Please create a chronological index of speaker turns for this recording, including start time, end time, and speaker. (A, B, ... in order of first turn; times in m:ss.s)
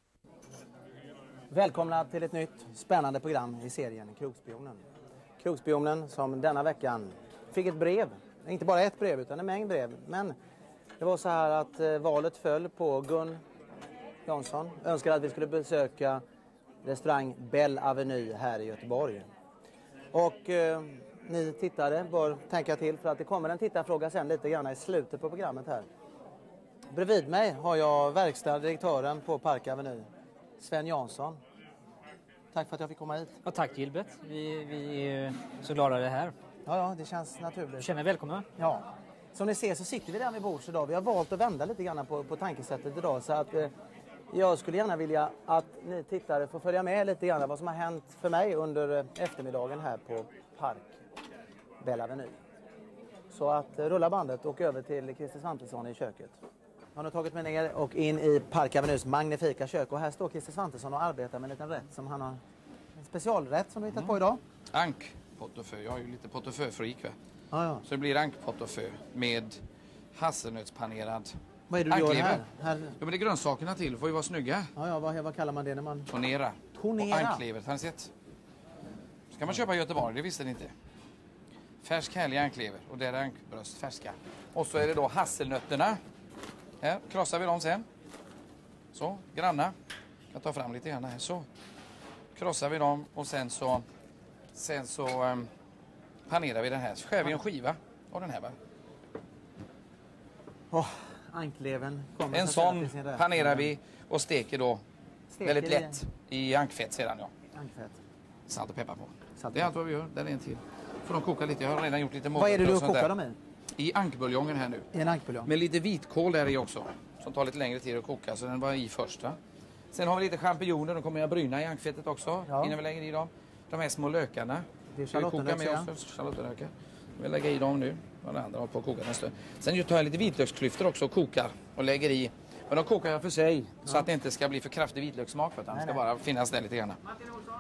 0:01.5-0:04.8 A
0:05.4-0:10.3 A
0:11.0-0:13.4 A
0:14.2-0:16.2 A
0:16.8-0:19.3 A
0:20.1-0:25.9 A
0:26.9-0:30.1 A
0:30.6-0:31.4 A
0:32.5-0:33.4 A
0:33.4-0:36.3 B
0:36.7-0:37.9 A
0:37.8-0:38.5 B
0:38.6-0:43.7 A
0:44.3-0:51.0 A
0:51.8-0:52.3 A
0:53.3-0:56.4 A
0:57.0-1:02.4 A
1:03.0-1:04.4 A
1:04.7-1:07.1 C
1:07.5-1:07.8 A
1:07.8-1:09.6 C
1:10.1-1:11.4 C
1:11.7-1:13.0 A
1:11.9-1:12.4 C
1:13.0-1:14.7 C
1:14.8-1:16.1 A
1:16.1-1:18.1 C
1:16.7-1:17.4 A
1:19.3-1:20.7 C
1:21.8-1:26.0 C
1:26.8-1:27.9 C
1:28.9-1:29.7 C
1:30.3-1:31.4 C
1:32.3-1:33.8 C
1:34.5-1:35.5 C
1:36.3-1:38.6 C
1:40.7-1:43.7 A
1:42.3-1:44.8 C
1:45.3-1:46.0 A
1:45.4-1:47.3 C
1:47.5-1:48.0 A
1:48.5-1:53.1 C
1:49.4-1:49.7 A
1:52.3-1:53.4 A
1:53.8-1:54.9 C
1:54.9-1:55.5 A
1:55.4-1:59.4 C
1:59.9-2:17.0 C
2:02.5-2:02.8 A
2:04.9-2:05.9 A
2:15.7-2:16.0 A